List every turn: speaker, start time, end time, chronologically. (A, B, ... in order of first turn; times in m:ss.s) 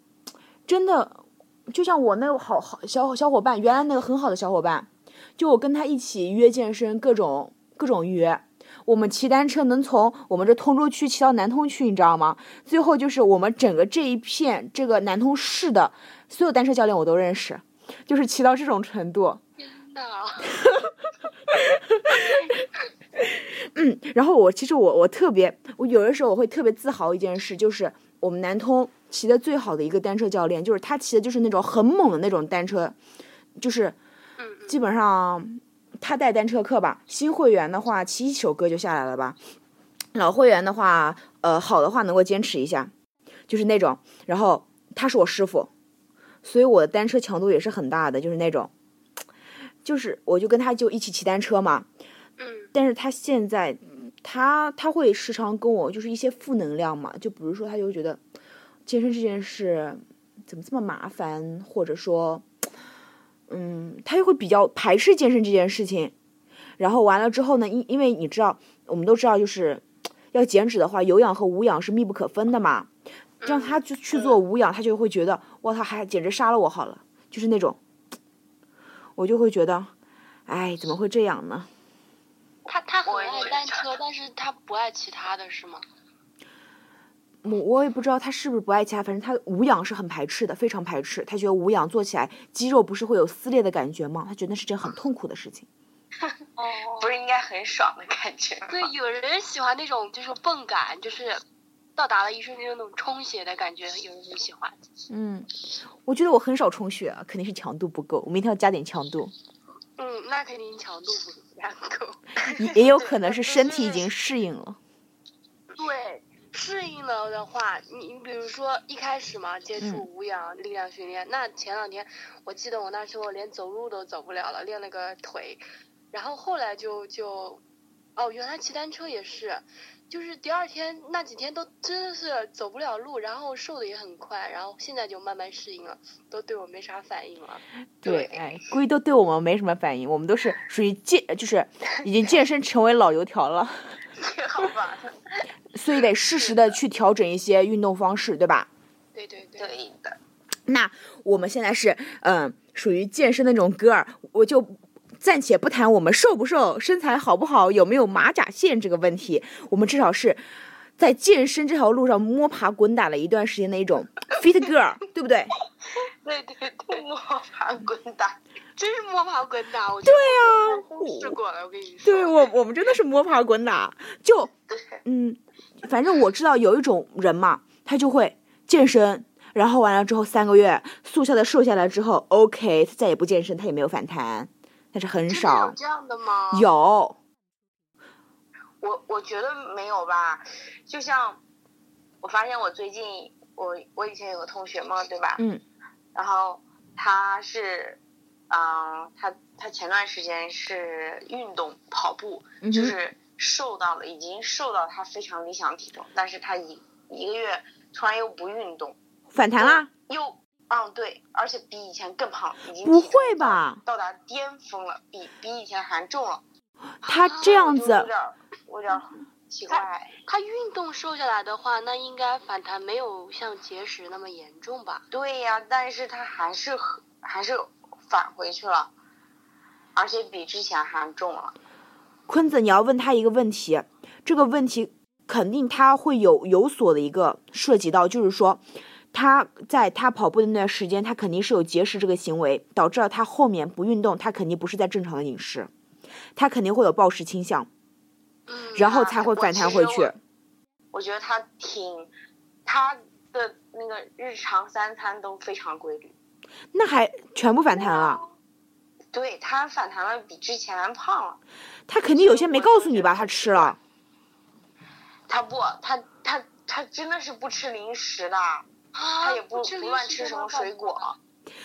0:00.7-0:19.4 A
0:19.6-0:20.7 B
0:20.6-0:20.9 A
0:21.7-0:22.4 A
0:22.2-0:22.5 B
0:23.2-0:33.0 A
0:33.6-0:34.0 A
0:34.4-0:34.8 B
0:34.7-0:39.4 A
0:40.1-0:42.9 A
0:43.5-0:45.7 A
0:46.4-0:48.7 A
0:49.8-0:51.9 A
0:52.4-0:52.7 B
0:52.7-0:58.2 A
0:58.8-1:02.4 A
1:03.5-1:06.1 A
1:06.8-1:12.9 A
1:13.4-1:13.8 B
1:13.4-1:17.8 A
1:19.2-1:19.9 A
1:20.5-1:21.7 A
1:22.7-1:25.8 B
1:23.0-1:23.8 C
1:27.4-1:35.7 A
1:36.6-1:37.1 B
1:37.0-1:38.9 C
1:38.7-1:41.4 B
1:42.0-1:44.8 B
1:45.1-1:45.5 A
1:46.0-1:49.3 A
1:50.0-1:52.2 B
1:52.5-1:54.8 A
1:52.8-1:54.1 C
1:55.7-2:07.6 B
1:59.8-2:00.0 A
2:08.2-2:18.4 B
2:18.0-2:24.0 A
2:24.2-2:25.2 C
2:25.7-2:28.7 A
2:29.1-2:29.7 B
2:29.6-2:30.2 C
2:30.7-2:40.4 A
2:41.0-2:45.5 A
2:46.2-2:48.4 C
2:48.8-2:52.5 B
2:50.0-2:51.4 A
2:52.0-2:54.5 A
2:55.0-3:05.8 A
3:05.3-3:06.7 B
3:06.5-3:07.2 A
3:08.8-3:11.4 C
3:12.2-3:15.4 C
3:16.1-3:18.0 C
3:18.5-3:29.0 C
3:22.6-3:23.0 A
3:29.3-3:29.9 A
3:29.5-3:36.4 C
3:32.8-3:33.8 A
3:37.0-3:38.1 A
3:37.0-3:37.7 B
3:37.3-3:40.1 C
3:39.7-3:45.0 B
3:45.1-3:48.9 C
3:50.0-3:51.5 C
3:52.3-4:05.7 A
4:06.4-4:07.7 A
4:08.5-4:08.9 B
4:08.8-4:10.2 A
4:08.8-4:10.1 C
4:10.9-4:12.1 C
4:12.6-4:16.1 C
4:16.7-4:18.2 A
4:17.8-4:18.2 C
4:19.1-4:21.4 C
4:21.9-4:23.8 A
4:22.2-4:23.7 C
4:25.3-4:28.7 C
4:28.9-4:31.0 B
4:29.2-4:31.2 C